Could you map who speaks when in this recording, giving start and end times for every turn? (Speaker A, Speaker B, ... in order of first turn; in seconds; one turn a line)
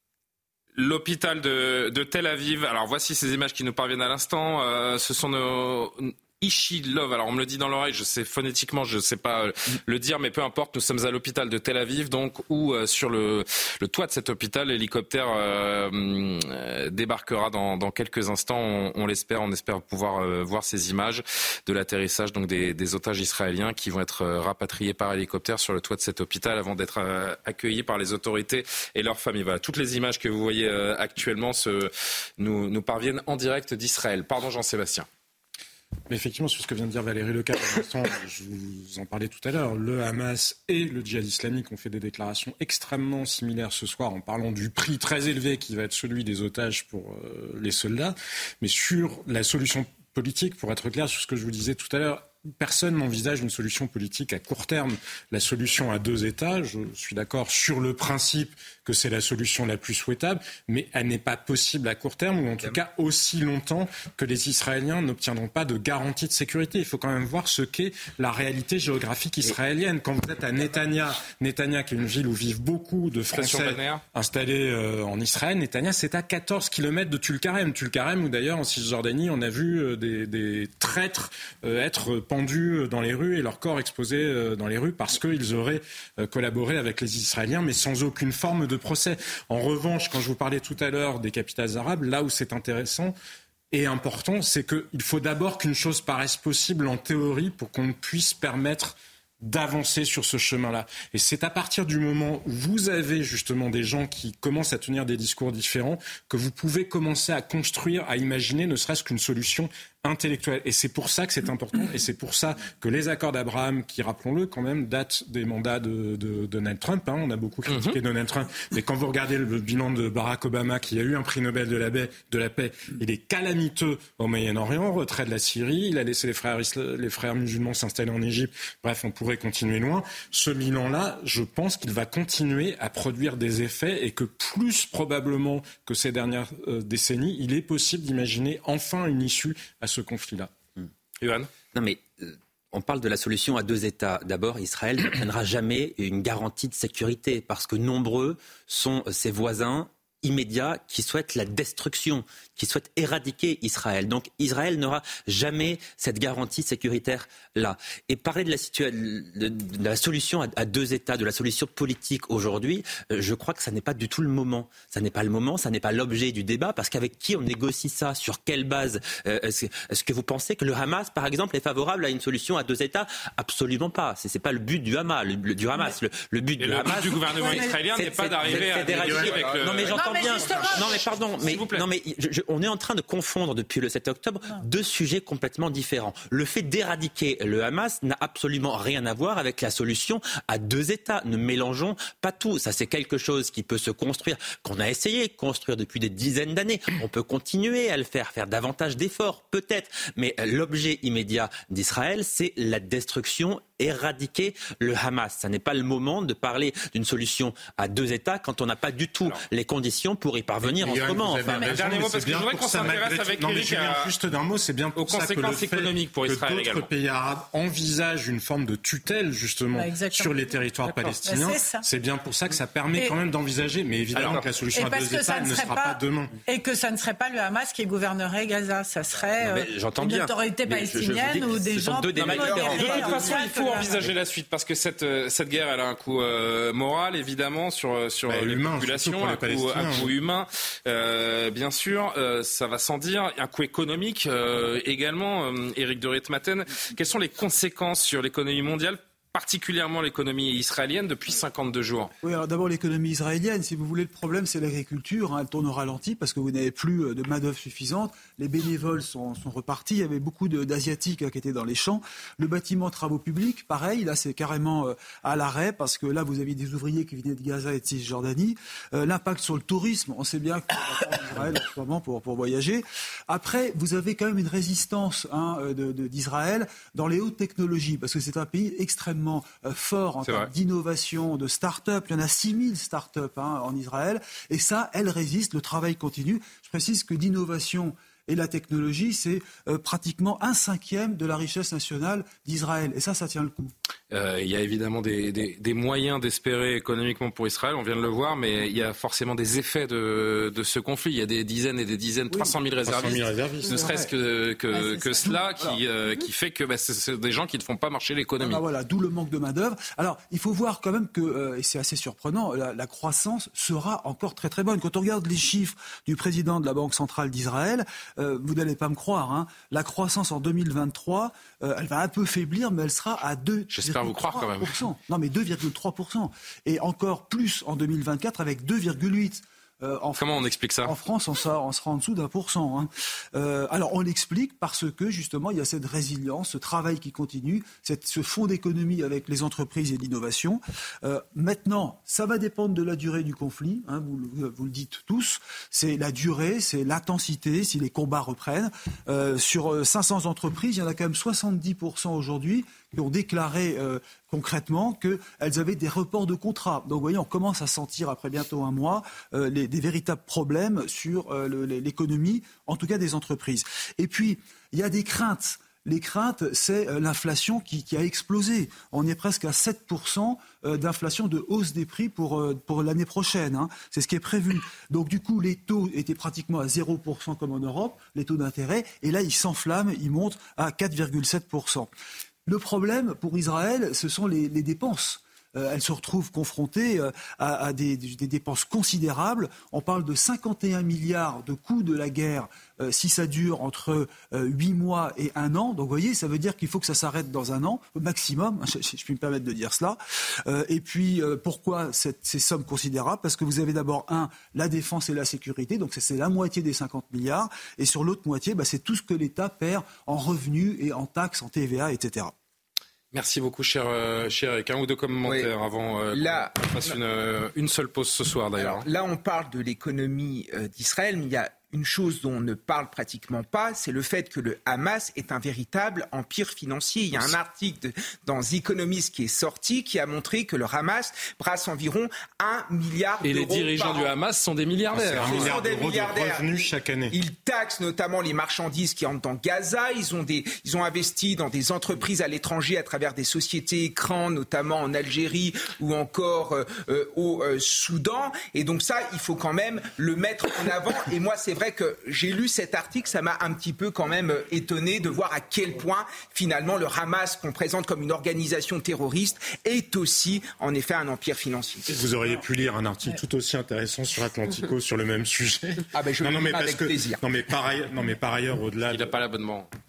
Speaker A: 0.8-35.0
Speaker B: 36.1-93.2
Speaker A: 73.3-74.0
Speaker B: 93.7-140.5
Speaker A: 117.7-118.0
Speaker A: 141.2-141.5
Speaker C: 141.7-211.8
Speaker A: 176.6-181.8
Speaker D: 177.4-177.8
Speaker B: 178.4-180.0
Speaker D: 179.9-181.0
Speaker B: 210.6-226.3
Speaker A: 211.5-214.1
Speaker A: 214.9-216.9
Speaker D: 219.7-221.8
Speaker A: 224.1-224.4
Speaker D: 224.7-234.0
Speaker C: 229.4-233.4
Speaker A: 232.2-252.1
Speaker E: 232.2-233.4
Speaker B: 238.3-240.1
Speaker F: 252.2-293.7
Speaker A: 280.2-280.5
Speaker A: 294.1-308.6
Speaker B: 302.8-304.0
Speaker F: 303.6-304.1
Speaker F: 304.7-305.8
Speaker F: 308.4-381.9
Speaker A: 323.7-324.8
Speaker A: 330.2-330.9
Speaker F: 382.5-412.3
Speaker A: 413.1-418.8
Speaker E: 416.1-417.0
Speaker E: 418.6-434.1
Speaker A: 433.2-435.5
Speaker B: 434.9-437.1
Speaker E: 435.2-461.8
Speaker B: 461.9-469.1
Speaker E: 465.9-467.2
Speaker A: 468.9-469.7